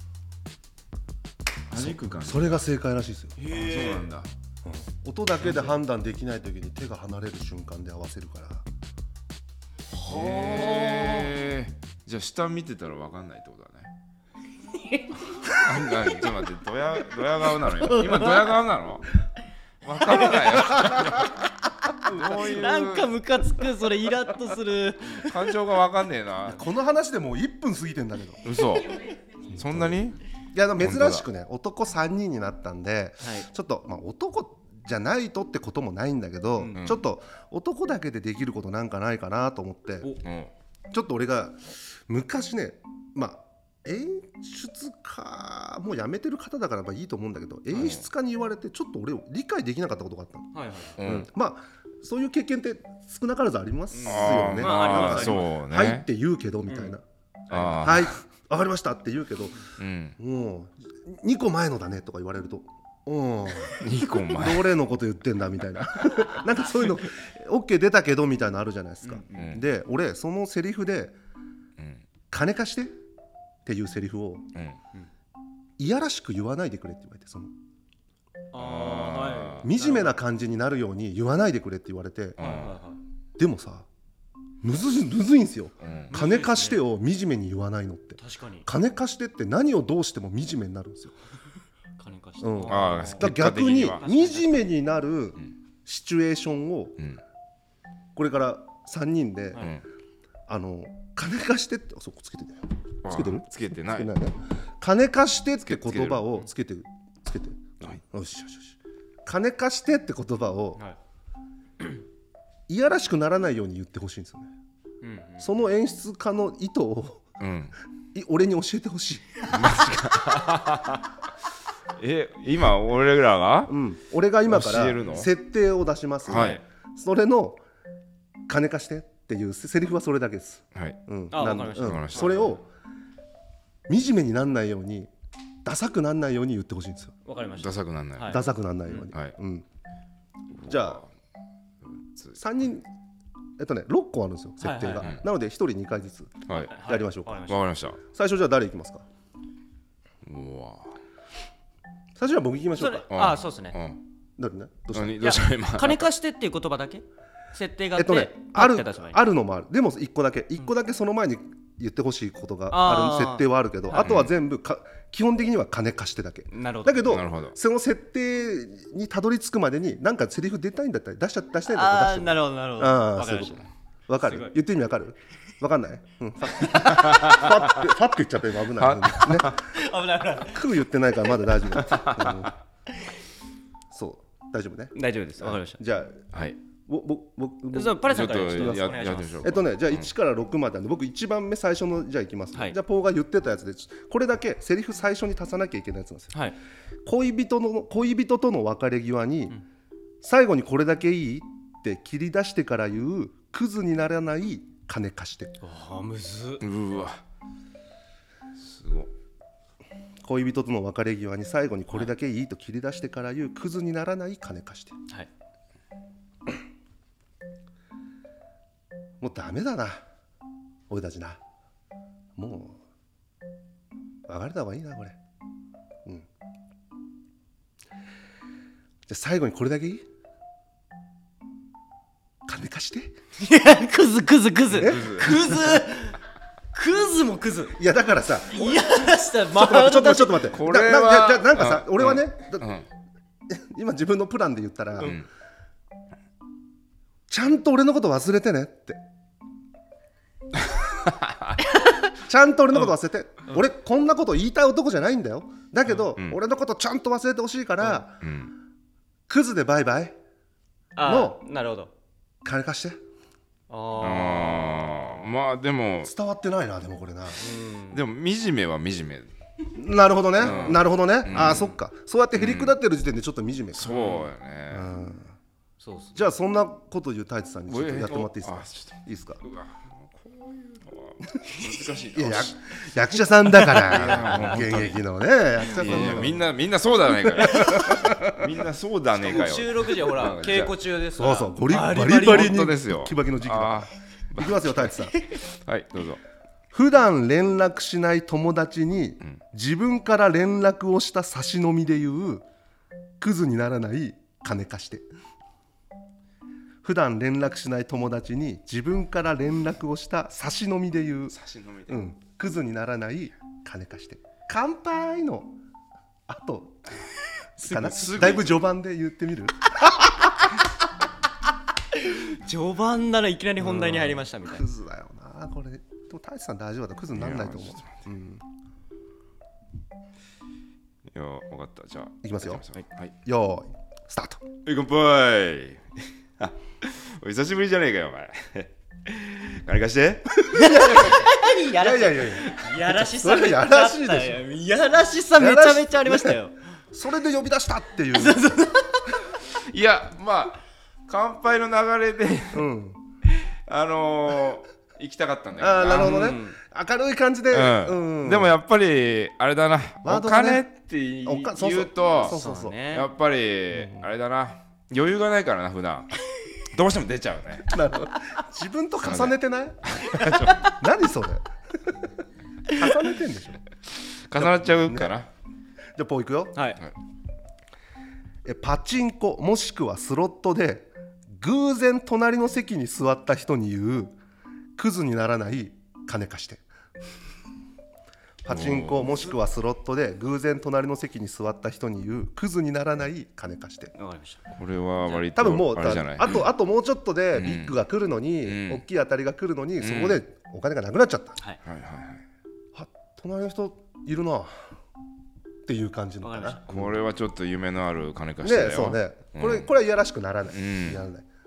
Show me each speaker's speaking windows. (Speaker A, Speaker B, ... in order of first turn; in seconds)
Speaker A: 1.7-2.6, 3.4-4.3, 10.1-13.9, 15.4-19.1, 19.8-21.4, 22.0-23.1, 25.1-26.6, 28.4-30.2, 30.8-31.2, 40.2-40.5, 47.7-48.0, 51.0-51.3, 54.0-56.0, 57.5-58.1, 59.8-60.1, 63.7-64.8, 69.3-69.6, 71.8-72.0, 78.5-79.7, 82.4-82.8, 85.8-86.2, 92.7-94.1, 103.0-104.1, 105.6-106.4, 117.4-117.7, 119.5-121.1, 122.0-123.7, 124.5-125.3, 126.3-126.6, 131.8-132.6, 137.6-138.4, 140.6-141.1, 146.5-146.8, 147.4-148.0, 150.2-150.9, 153.1-154.0, 154.9-156.1, 164.0-164.3, 167.1-167.5, 177.0-177.8, 178.8-179.6, 181.8-182.5, 186.3-186.6, 188.0-190.1, 206.6-207.2, 208.6-209.1, 234.8-235.3, 240.5-242.8, 245.0-245.2, 258.2-258.5, 264.0-266.1, 267.9-269.3, 270.4-271.8, 272.3-272.8, 273.7-274.9, 277.7-285.1, 285.6-290.7, 292.2-295.0, 295.6-296.2, 311.3-312.0, 317.7-318.6, 327.1-328.0, 331.1-333.1, 334.6-335.8, 336.4-340.4, 349.4-352.6, 353.2-356.4, 357.5-362.4, 362.9-367.7, 369.0-369.3, 369.9-370.7, 374.3-375.3, 388.5-389.3, 394.5-396.5, 397.3-397.8, 398.4-398.8, 399.8-400.2, 401.6-402.2, 406.7-409.7, 410.5-411.1
Speaker B: 1.8-3.4, 4.6-8.6, 22.1-22.6, 26.4-28.4, 29.6-29.9, 30.5-40.1, 40.9-50.5, 51.0-57.0, 57.6-59.6, 60.2-71.2, 72.3-72.9, 73.7-74.5, 75.8-77.5, 79.6-82.4, 83.4-83.9, 84.6-91.1, 92.4-97.0, 98.2-99.7, 100.5-110.8, 112.7-114.5, 115.4-117.2, 118.1-119.4, 123.7-127.6, 128.5-132.7, 133.9-135.1, 135.6-137.1, 138.3-139.6, 140.7-141.0, 142.3-142.9, 143.6-147.5, 148.1-149.0, 152.2-153.1, 154.4-155.4, 157.9-179.6, 180.4-182.6, 183.9-186.3, 186.8-196.3, 197.1-199.6, 200.2-205.5, 210.2-214.9, 219.2-220.0, 220.9-221.4, 222.4-222.8, 224.3-225.2, 229.1-230.0, 232.5-233.1, 234.7-235.3, 237.8-238.8, 239.5-242.8, 243.5-245.2, 247.3-249.0, 252.2-258.2, 259.3-260.1, 261.0-261.4, 262.4-263.0, 266.0-267.5, 269.7-273.9, 274.7-275.3, 276.1-279.4, 282.1-286.5, 287.2-288.5, 291.1-295.1, 296.7-302.4, 303.2-305.0, 306.8-311.4, 311.9-315.5, 316.3-316.9, 317.7-320.1, 323.6-328.4, 332.2-332.6, 333.2-334.4, 340.4-344.4, 345.4-346.4, 346.9-348.4, 352.5-353.0, 355.6-358.5, 360.0-360.7, 361.2-362.8, 363.7-364.1, 367.7-369.9, 370.6-371.5, 372.7-373.6, 374.4-375.1, 375.9-376.6, 378.4-384.1, 384.8-386.6, 388.4-393.9, 395.3-401.4, 402.7-404.6, 405.6-407.0, 408.4-411.2
Speaker C: 3.4-4.1, 10.0-11.3, 14.8-15.6, 17.8-18.6, 20.1-20.7, 22.2-25.5, 33.2-33.5, 36.6-36.8, 50.5-51.0, 53.9-55.4, 56.7-57.0, 57.5-57.9, 69.0-69.5, 78.5-80.2, 82.4-83.0, 86.1-86.8, 88.2-88.7, 92.0-93.3, 94.0-94.7, 115.0-115.5, 126.3-126.6, 131.3-132.4, 137.2-139.1, 144.6-145.2, 146.5-147.6, 152.8-153.8, 155.2-157.0, 157.5-159.2, 162.7-164.2, 166.5-167.2, 171.7-173.7, 174.2-174.5, 179.7-180.6, 184.9-185.8, 187.7-189.4, 205.6-206.6, 233.4-236.2, 236.7-237.8, 238.4-240.5, 251.8-252.0, 260.9-261.9, 263.7-265.2, 267.4-268.0, 270.4-270.8, 275.8-276.3, 283.8-284.6, 289.1-292.5, 317.6-318.4, 321.9-324.6, 340.5-346.5, 348.1-349.2, 355.9-356.6, 362.2-363.1, 376.5-376.8, 393.9-394.4, 406.2-406.6